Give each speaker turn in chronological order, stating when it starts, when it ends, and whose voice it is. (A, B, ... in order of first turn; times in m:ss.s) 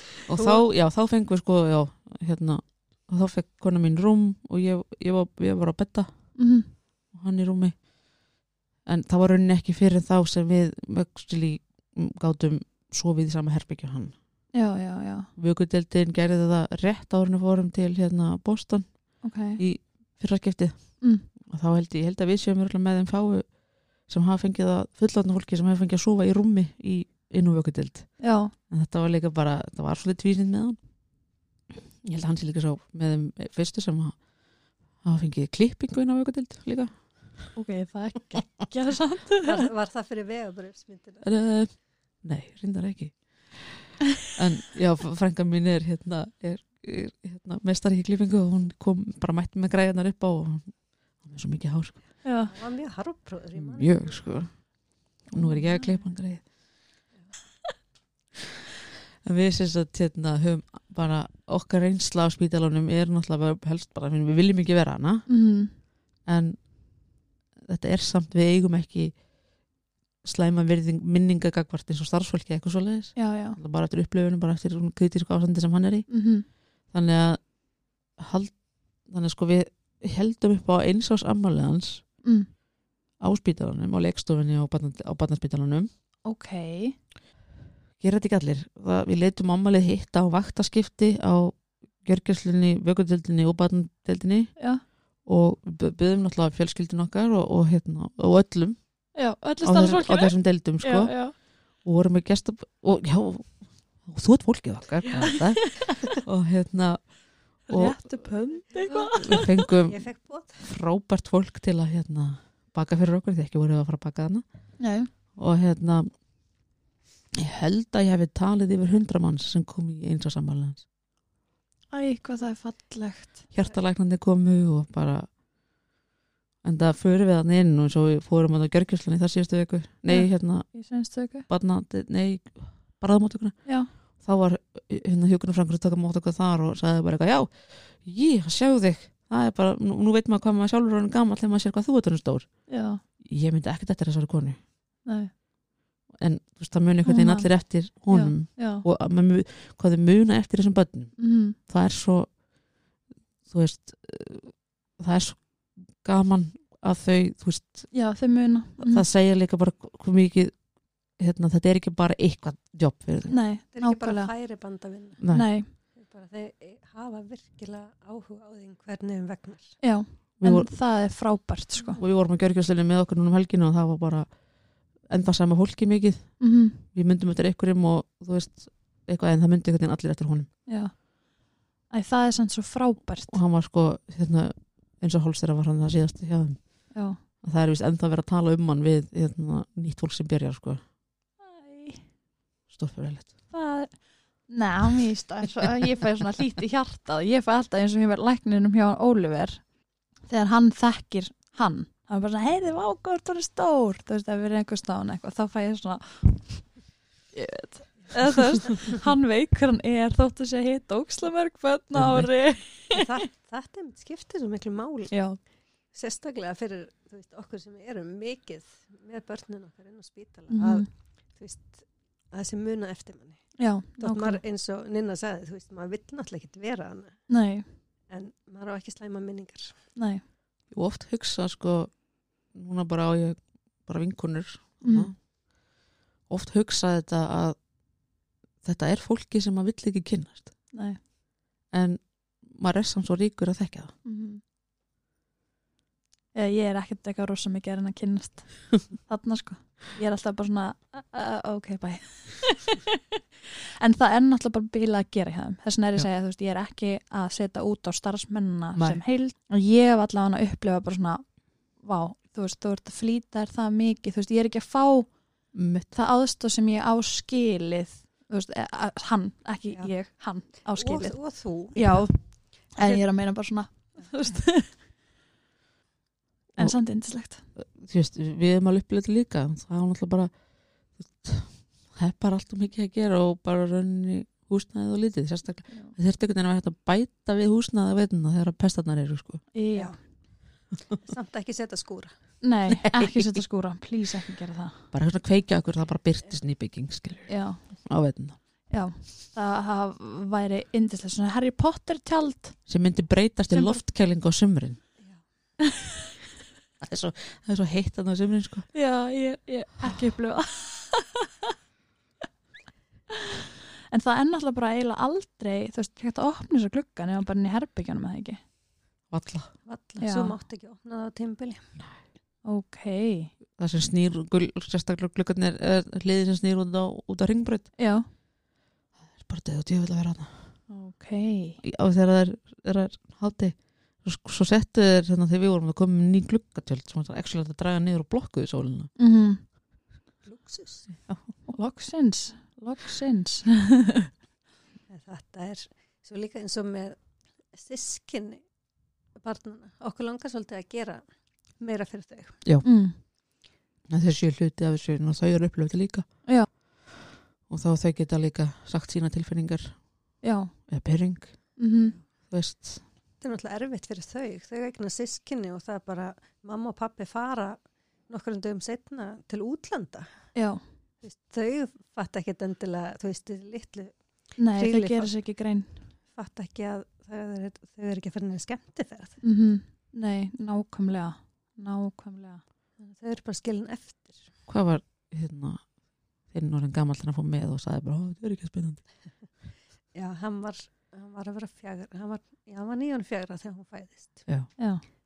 0:00.3-0:06.1 A
0:00.3-0:00.6 B
0:06.4-0:06.7 C
0:07.1-0:07.8 A
0:08.9-0:14.1 A
0:14.5-0:15.3 C
0:15.4-0:23.5 A
0:19.2-0:19.6 C
0:21.0-0:21.3 C
0:24.1-0:30.8 A
0:28.2-0:28.5 C
0:32.0-0:34.2 A
0:35.0-0:37.1 A
0:37.5-0:39.7 C
0:39.4-0:41.3 B
0:41.2-0:41.7 A
0:42.2-0:52.0 A
0:52.2-0:52.5 C
0:52.4-0:54.2 B
0:53.6-0:54.7 A
0:55.2-0:56.4 A
0:55.3-0:56.0 C
0:59.2-1:05.3 A
1:05.3-1:05.7 C
1:06.3-1:06.6 A
1:07.6-1:09.2 A
1:10.2-1:16.1 A
1:13.2-1:13.6 C
1:16.1-1:16.5 C
1:16.9-1:17.4 A
1:18.2-1:22.0 A
1:22.2-1:22.5 C
1:23.2-1:25.9 A
1:26.3-1:27.0 C
1:28.0-1:34.5 A
1:34.6-1:34.8 C
1:35.2-1:38.8 A
1:39.2-1:41.4 C
1:39.6-1:41.3 A
1:41.8-1:48.1 A
1:45.1-1:46.2 C
1:47.7-1:49.5 C
1:48.9-1:50.7 B
1:49.1-1:50.0 A
1:50.6-1:54.4 A
1:54.8-1:55.1 C
1:55.4-1:56.1 A
1:57.4-2:00.8 A
2:01.9-2:03.4 C
2:03.5-2:05.3 A
2:06.6-2:10.7 A
2:10.1-2:11.5 C
2:11.5-2:13.6 A
2:14.2-2:22.5 A
2:22.7-2:23.0 C
2:23.2-2:24.6 A
2:25.1-2:25.3 C
2:26.2-2:32.3 A
2:27.0-2:28.8 C
2:31.2-2:31.6 C
2:33.5-2:35.5 A
2:36.0-2:37.9 A
2:37.9-2:39.0 C
2:38.8-2:40.6 A
2:41.2-2:43.4 A
2:43.3-2:44.3 C
2:43.7-2:45.2 B
2:45.2-2:45.5 A
2:45.3-2:45.7 C
2:46.0-2:49.8 B
2:49.8-2:52.0 C
2:50.4-2:50.7 A
2:52.0-2:54.3 A
2:55.1-2:56.4 A
2:56.4-2:56.8 C
2:56.9-3:00.5 A
3:00.7-3:01.0 C
3:01.9-3:03.4 C
3:03.3-3:06.8 A
3:06.9-3:07.2 C
3:07.4-3:10.8 A
3:11.4-3:12.0 C
3:12.7-3:13.3 A
3:13.5-3:13.9 C
3:14.5-3:19.6 C
3:20.3-3:26.6 C
3:27.3-3:33.1 C
3:32.0-3:32.3 A
3:32.9-3:35.2 B
3:35.1-3:35.4 C
3:35.9-3:47.2 B
3:40.5-3:40.9 C
3:43.6-3:44.4 C
3:47.3-3:47.7 C
3:48.1-3:49.8 B
3:50.0-3:50.2 C
3:50.7-3:51.9 A
3:52.5-3:55.2 A
3:54.8-3:55.1 C
3:56.3-3:57.6 A
3:58.6-4:00.5 A
4:00.7-4:01.0 C
4:01.7-4:03.9 A
4:04.0-4:04.4 C
4:06.3-4:21.2 C
4:18.8-4:19.0 A
4:21.8-4:25.1 C
4:25.5-4:25.9 A
4:25.9-4:31.2 C
4:30.7-4:32.0 B
4:31.7-4:32.2 C
4:32.7-4:34.7 C
4:36.6-4:37.4 C
4:37.6-4:40.3 A
4:41.0-4:49.4 A
4:45.7-4:46.0 C
4:49.5-4:50.0 C
4:51.0-4:52.1 B
4:52.4-4:54.8 C
4:52.7-4:53.3 A
4:54.9-4:57.3 A
4:57.3-4:57.6 C
4:57.8-4:58.4 A
4:58.7-5:02.6 C
5:02.7-5:04.8 A
5:03.5-5:03.8 C
5:05.6-5:06.0 C
5:06.8-5:08.7 A
5:08.7-5:11.5 C
5:13.9-5:18.4 C
5:19.1-5:19.5 A
5:19.7-5:21.7 B
5:20.0-5:20.4 C
5:22.4-5:23.3 C
5:23.6-5:27.7 A
5:27.8-5:28.1 C
5:29.1-5:30.4 A
5:30.7-5:31.6 C
5:31.6-5:38.9 A
5:39.0-5:39.4 C
5:40.2-5:40.9 B
5:41.5-5:44.1 C
5:44.9-5:47.0 B
5:47.5-5:48.4 B
5:49.2-5:51.0 B
5:51.6-5:52.4 B
5:52.6-5:53.0 C
5:53.9-5:56.1 A
5:57.5-5:59.8 A
6:00.2-6:00.5 C
6:00.7-6:01.4 A
6:01.6-6:02.0 C
6:02.3-6:02.8 A
6:03.2-6:10.1 B
6:10.4-6:10.6 C
6:11.0-6:13.9 B
6:14.4-6:15.8 C
6:14.5-6:15.1 B
6:16.2-6:19.2 B
6:19.2-6:22.4 C
6:22.8-6:24.3 B
6:24.5-6:25.6 A
6:26.3-6:28.8 A
6:29.9-6:34.3 B
6:34.6-6:34.8 C